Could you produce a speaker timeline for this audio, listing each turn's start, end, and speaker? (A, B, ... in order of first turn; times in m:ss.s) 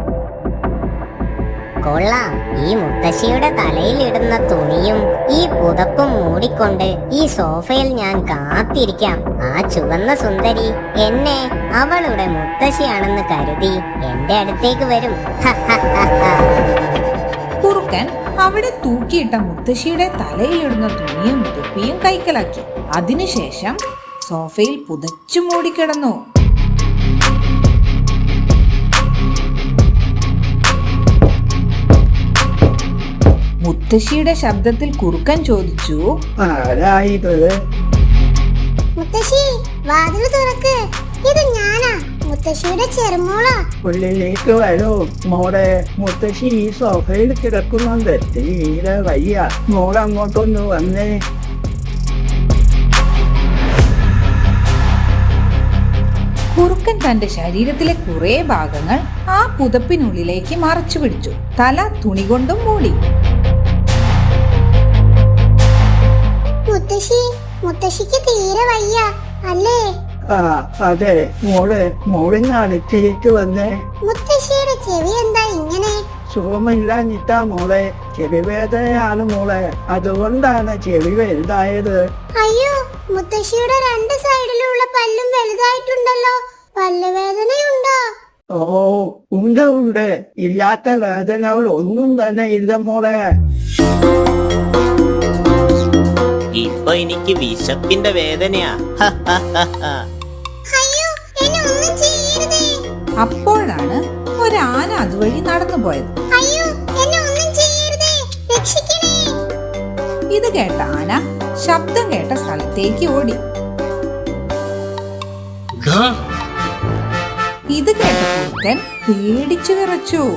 0:01.8-0:16.3 A
0:17.6-0:26.2 B
0:33.6-0:36.0 B
0:36.4-0:37.5 C
0:39.0-0:40.8 D
0:41.3-0:43.6 D
0:43.8-0:51.1 C
0:56.6-1:03.0 B
1:06.7-1:09.8 D
1:10.3-1:13.7 C
1:14.1-1:16.0 D
1:16.3-1:22.0 C
1:22.4-1:28.0 D
1:28.5-1:33.2 C
1:36.5-1:40.0 E
1:40.8-1:42.6 D
1:43.2-1:46.1 B
1:46.3-1:49.3 D
1:50.3-1:53.4 B
1:57.7-2:00.2 B